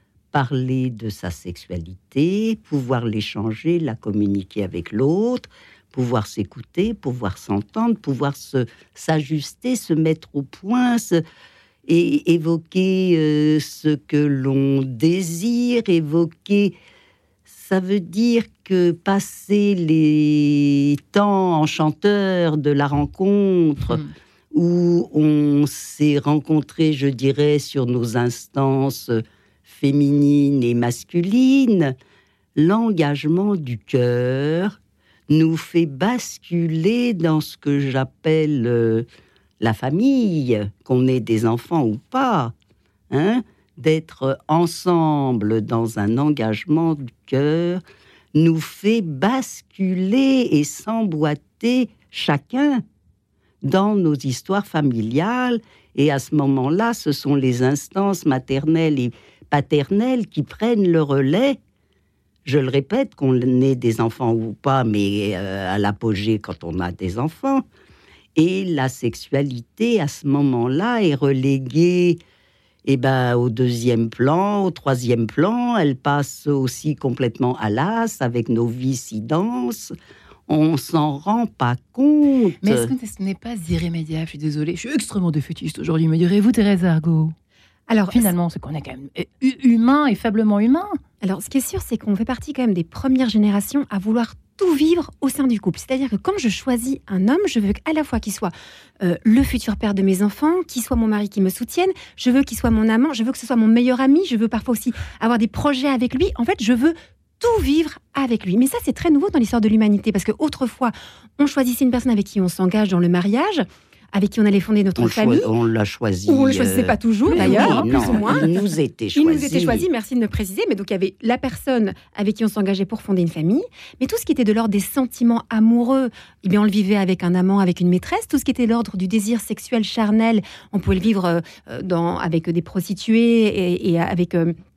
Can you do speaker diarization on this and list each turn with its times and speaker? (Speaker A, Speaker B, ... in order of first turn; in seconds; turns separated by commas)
Speaker A: 0.3-11.2, Speaker A: 11.8-16.8, Speaker A: 17.5-24.0, Speaker A: 24.5-31.9, Speaker A: 32.5-34.8, Speaker A: 35.3-39.0, Speaker A: 39.6-42.5, Speaker A: 43.1-47.8, Speaker A: 48.3-52.8, Speaker A: 53.6-61.6, Speaker A: 62.4-67.6, Speaker A: 68.3-72.2, Speaker A: 72.8-79.9, Speaker A: 80.5-82.9, Speaker B: 82.6-87.3, Speaker C: 87.9-88.3, Speaker B: 88.1-91.0, Speaker C: 91.2-115.5, Speaker A: 115.0-119.8, Speaker C: 116.3-118.5, Speaker B: 117.3-118.3, Speaker C: 119.1-134.5